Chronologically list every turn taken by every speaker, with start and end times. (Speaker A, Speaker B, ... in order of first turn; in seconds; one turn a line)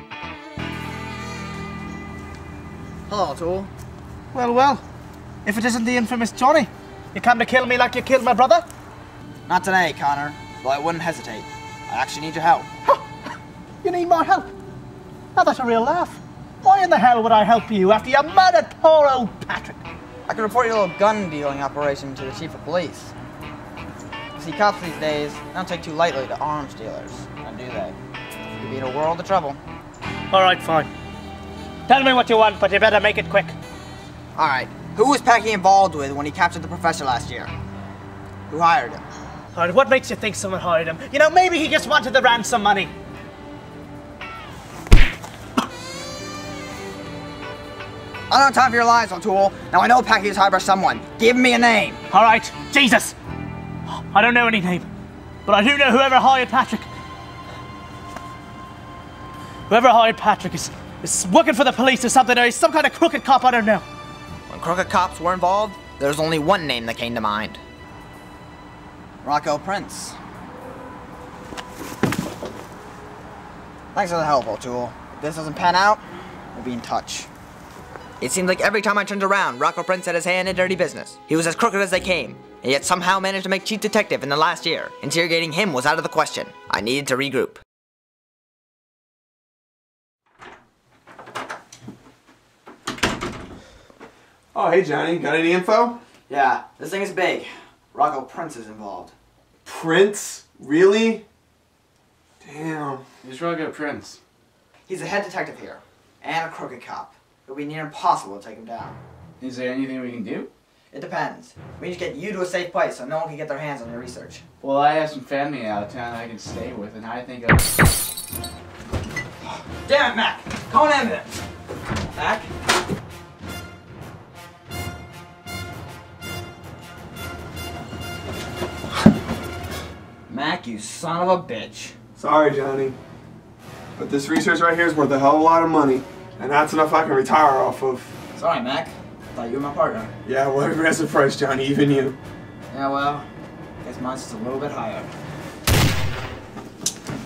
Speaker A: 3.1-3.7
Speaker B: 4.3-4.8
Speaker B: 5.5-8.7
Speaker A: 9.5-12.7
Speaker B: 13.8-14.5
Speaker B: 15.3-19.8
Speaker A: 20.3-23.1
Speaker A: 24.4-28.0
Speaker A: 28.6-29.6
Speaker B: 30.3-30.9
Speaker B: 31.9-33.6
Speaker A: 34.4-37.5
Speaker A: 38.5-39.0
Speaker B: 39.5-42.9
Speaker A: 48.3-52.0
Speaker B: 52.1-53.2
Speaker B: 54.1-54.9
Speaker B: 55.5-56.9
Speaker B: 59.7-63.8
Speaker A: 64.5-67.6
Speaker A: 69.2-70.2
Speaker A: 73.9-77.3
Speaker A: 78.2-87.6
Speaker C: 94.5-96.0
Speaker A: 96.3-99.2
Speaker C: 99.7-101.2
Speaker C: 102.4-103.0
Speaker D: 103.2-104.2
Speaker A: 104.9-109.0
Speaker D: 109.4-110.5
Speaker A: 110.9-114.4
Speaker D: 114.6-117.8
Speaker A: 119.4-121.4
Speaker A: 122.1-122.5
Speaker A: 130.3-132.0
Speaker C: 132.2-133.0
Speaker C: 134.0-138.1
Speaker A: 138.3-140.1
Speaker C: 140.3-142.2
Speaker A: 142.7-143.3
Speaker A: 143.8-145.1